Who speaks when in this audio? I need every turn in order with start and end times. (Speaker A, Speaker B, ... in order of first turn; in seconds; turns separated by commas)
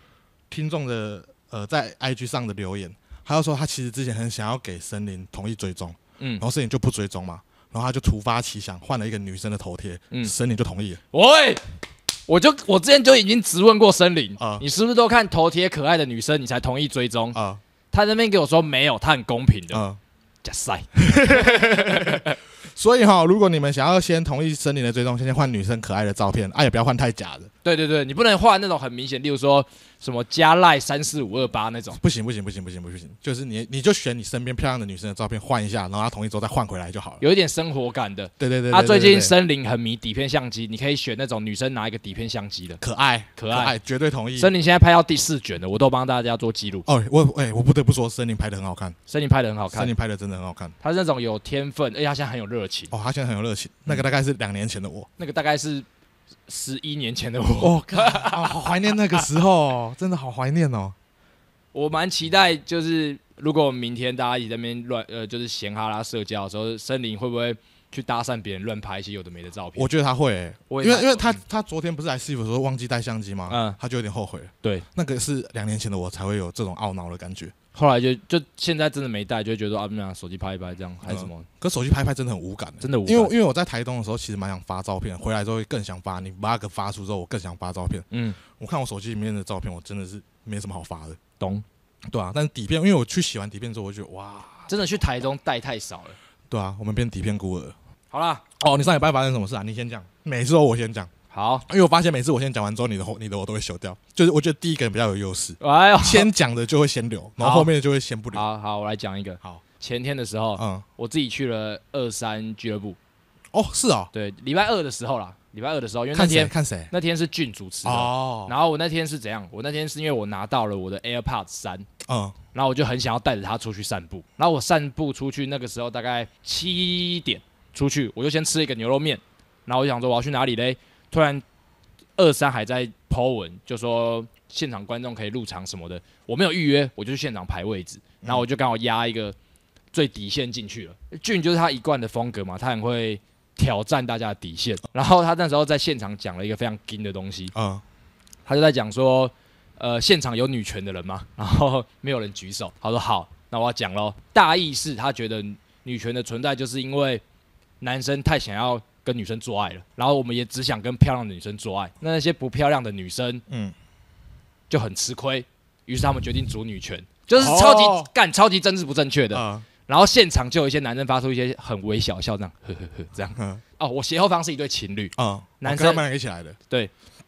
Speaker A: 0.5-11.0, Speaker B: 11.1-11.6, Speaker B: 12.3-17.4, Speaker A: 14.4-14.6, Speaker A: 17.3-17.6, Speaker B: 17.9-19.8, Speaker A: 19.7-20.0, Speaker B: 20.4-22.4, Speaker A: 21.0-27.5, Speaker B: 27.6-32.0, Speaker A: 32.0-37.2, Speaker B: 37.2-42.8, Speaker A: 38.4-39.4, Speaker A: 42.8-44.5, Speaker B: 43.4-43.7, Speaker B: 44.4-46.9, Speaker A: 46.9-49.0, Speaker B: 49.1-49.9, Speaker A: 49.7-50.8, Speaker B: 50.8-52.9, Speaker A: 52.9-55.1, Speaker B: 55.2-55.9, Speaker B: 56.5-59.2, Speaker A: 57.6-61.0, Speaker B: 61.7-69.9, Speaker A: 69.8-77.5, Speaker B: 70.7-71.4, Speaker B: 73.5-73.8, Speaker B: 77.7-81.5, Speaker A: 81.1-91.2, Speaker B: 82.8-83.3, Speaker B: 88.1-88.4, Speaker B: 91.4-91.7, Speaker A: 92.1-95.0, Speaker B: 94.7-96.2, Speaker A: 96.5-97.8, Speaker B: 98.1-98.5, Speaker A: 98.6-101.1, Speaker B: 101.3-101.7, Speaker A: 101.7-108.5, Speaker B: 105.6-106.3, Speaker B: 107.4-107.7, Speaker B: 108.3-113.0, Speaker A: 110.6-110.9, Speaker A: 113.5-114.1, Speaker B: 114.1-121.9, Speaker A: 116.1-116.9, Speaker A: 117.8-118.5, Speaker A: 122.1-122.4, Speaker B: 122.5-131.4, Speaker B: 132.2-139.4, Speaker B: 139.9-147.5, Speaker A: 147.5-147.8, Speaker B: 148.5-157.2, Speaker B: 157.8-163.4, Speaker A: 163.5-163.8, Speaker B: 164.7-176.0, Speaker A: 167.4-168.1, Speaker A: 169.3-169.7, Speaker A: 173.4-173.6, Speaker A: 175.2-176.6